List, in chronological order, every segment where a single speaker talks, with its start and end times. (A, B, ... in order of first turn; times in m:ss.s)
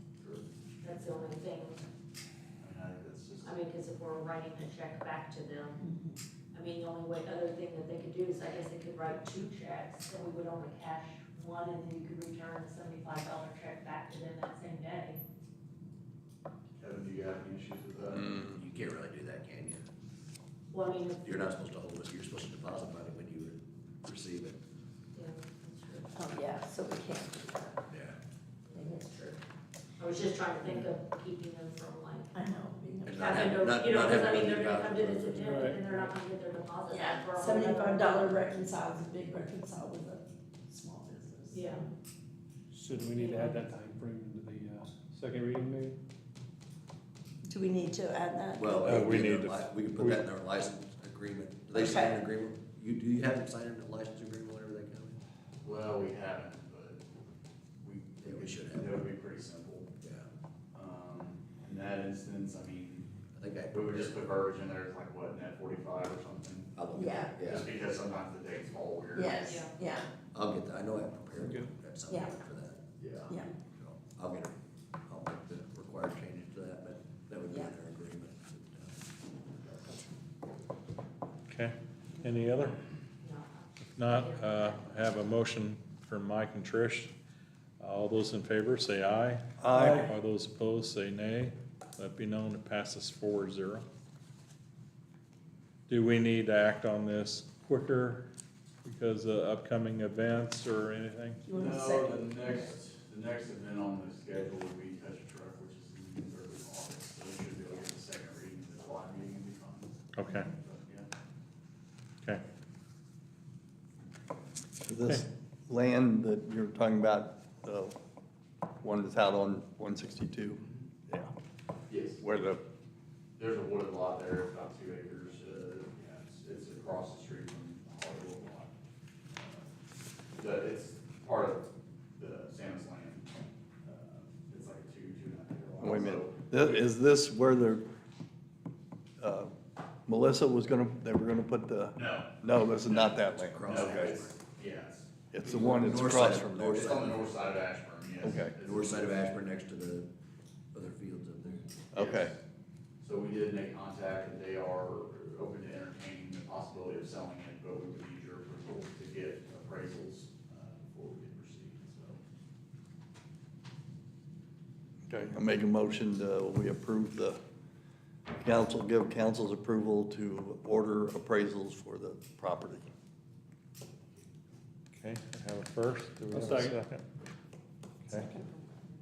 0:00.2-0:00.4 A
0:00.8-0:01.8 B
0:02.6-0:03.5 A
0:03.4-0:05.8 B
0:05.8-0:06.2 C
0:06.5-0:15.2 B
0:16.8-0:18.2 A
0:18.1-0:19.8 D
0:20.7-0:21.4 B
0:21.2-0:24.6 D
0:25.1-0:26.1 B
0:26.2-0:27.8 C
0:27.9-0:28.2 D
0:28.7-0:29.4 B
0:30.0-0:32.3 B
0:32.3-0:33.3 C
0:33.0-0:35.4 D
0:33.1-0:38.4 B
0:35.3-0:36.1 E
0:36.9-0:41.8 C
0:41.5-0:41.8 B
0:42.7-0:46.0 E
0:43.0-0:43.6 B
0:47.5-0:49.1 C
0:48.6-0:55.2 D
0:48.8-0:50.2 F
0:51.7-0:52.2 C
0:55.6-0:57.0 A
0:57.8-0:59.9 A
0:58.2-0:59.1 D
1:00.0-1:00.3 D
1:00.7-1:03.1 A
1:03.3-1:04.3 D
1:03.7-1:06.7 A
1:06.7-1:07.8 D
1:06.9-1:07.5 C
1:07.5-1:09.5 A
1:09.1-1:10.1 C
1:09.4-1:09.7 B
1:10.3-1:12.8 D
1:11.4-1:11.7 E
1:12.1-1:12.4 C
1:13.0-1:13.3 A
1:13.3-1:13.5 C
1:13.3-1:19.0 D
1:21.5-1:22.8 F
1:23.2-1:25.2 B
1:23.9-1:27.1 F
1:27.8-1:33.8 F
1:29.6-1:30.1 G
1:35.9-1:38.3 F
1:38.8-1:41.4 F
1:41.4-1:42.7 C
1:41.6-1:50.0 A
1:50.1-1:50.5 F
1:50.5-1:51.1 A
1:54.8-1:58.0 G
1:58.8-2:01.3 G
2:00.6-2:00.8 A
2:01.9-2:02.2 A
2:02.2-2:02.6 G
2:03.4-2:08.7 A
2:09.3-2:09.6 A
2:10.4-2:11.6 A
2:12.2-2:13.2 A
2:13.8-2:16.8 A
2:15.8-2:17.8 G
2:19.2-2:19.5 G
2:20.1-2:24.2 G
2:22.0-2:22.3 A
2:22.8-2:23.1 A
2:23.2-2:24.4 D
2:23.7-2:25.6 A
2:25.3-2:27.0 G
2:25.4-2:27.3 D
2:26.8-2:29.1 A
2:28.2-2:28.6 G
2:28.6-2:30.1 D
2:30.7-2:31.9 D
2:31.9-2:32.3 G
2:32.0-2:32.3 A
2:33.0-2:42.2 A
2:45.1-2:47.4 G
2:48.3-2:52.9 G
2:54.9-2:57.0 F
2:56.3-2:56.8 E
2:58.1-2:58.9 C